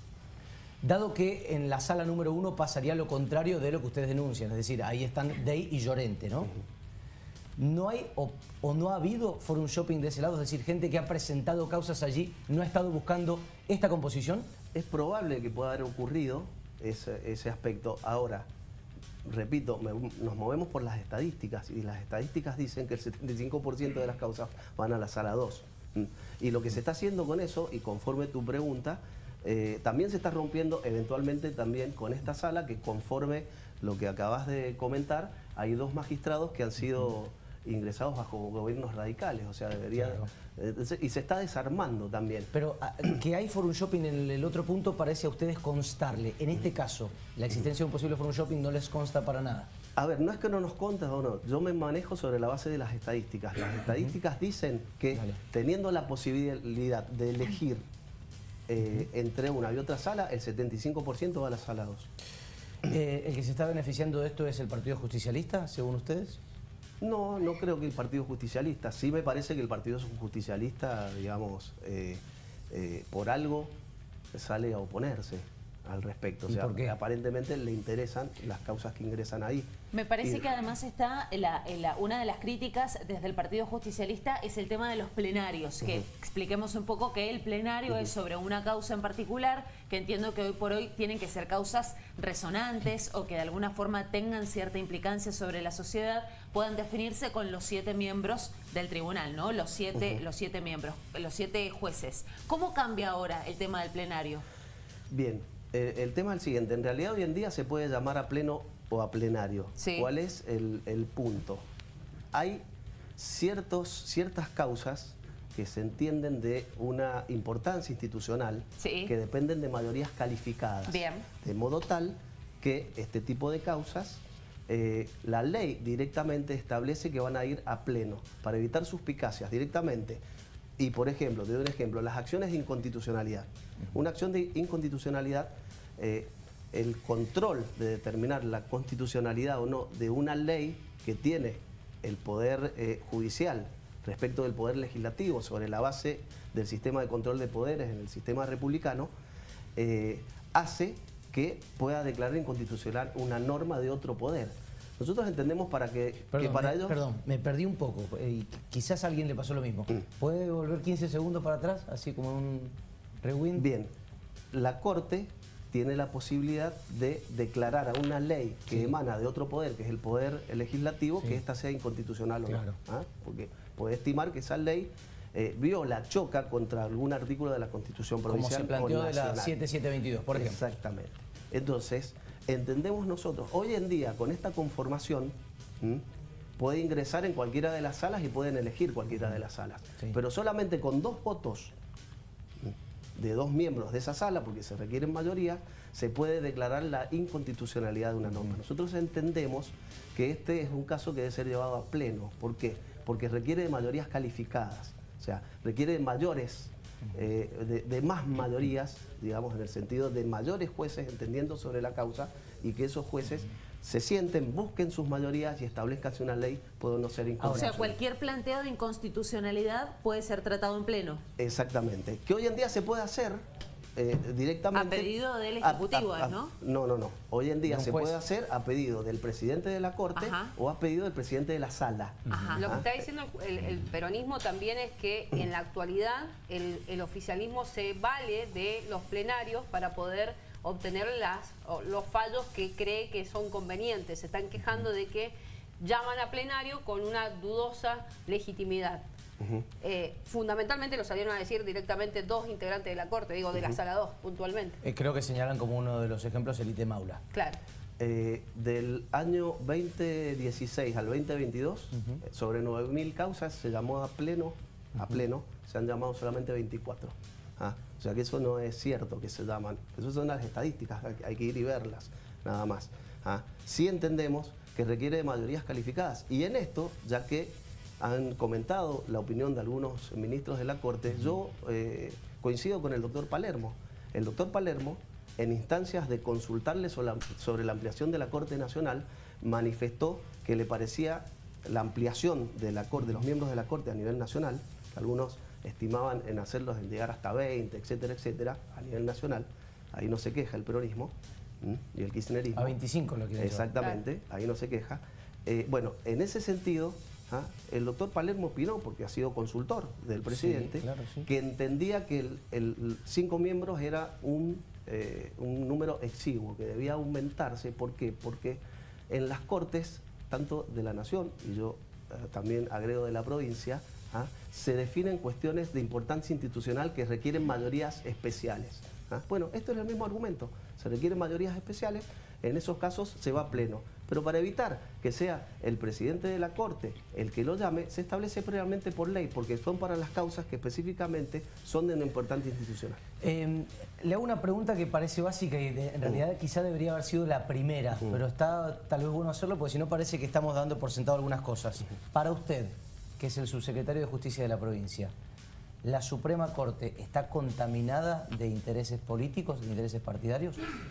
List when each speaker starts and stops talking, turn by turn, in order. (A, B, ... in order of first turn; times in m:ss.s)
0:00.8-0:06.5 A
0:07.6-0:14.5 A
0:14.7-0:18.5 B
0:19.2-0:42.5 B
0:42.5-0:49.7 A
0:50.0-0:57.8 B
0:58.7-1:02.1 B
1:02.8-1:06.4 A
1:07.0-1:13.7 B
1:14.3-1:19.7 B
1:16.5-1:16.9 A
1:19.9-1:44.4 C
1:45.1-1:51.6 B
1:49.8-1:50.1 C
1:52.3-1:52.6 B
1:53.2-2:10.2 B
1:58.8-1:59.1 C
2:00.9-2:01.2 C
2:10.8-2:29.1 B
2:29.8-2:37.0 B
2:36.3-2:43.6 A
2:43.6-2:43.9 B
2:44.5-2:59.6 B
2:52.5-2:52.8 A
2:58.3-3:00.6 A
3:00.3-3:06.0 B
3:06.6-3:11.7 B
3:12.6-3:38.0 B
3:37.4-3:37.8 A
3:37.5-3:41.2 C
3:41.4-3:43.4 B
3:44.0-3:52.9 B
3:44.7-3:46.5 C
3:47.7-3:48.2 A
3:50.2-3:50.5 C
3:52.3-3:52.7 C
3:52.6-4:09.0 D
4:09.8-4:14.8 D
4:14.8-4:17.2 A
4:17.3-4:17.6 D
4:18.0-5:02.8 B
5:02.5-5:03.7 A
5:03.4-5:43.0 B
5:10.3-5:11.2 A
5:43.2-5:55.1 A
5:55.8-6:00.6 A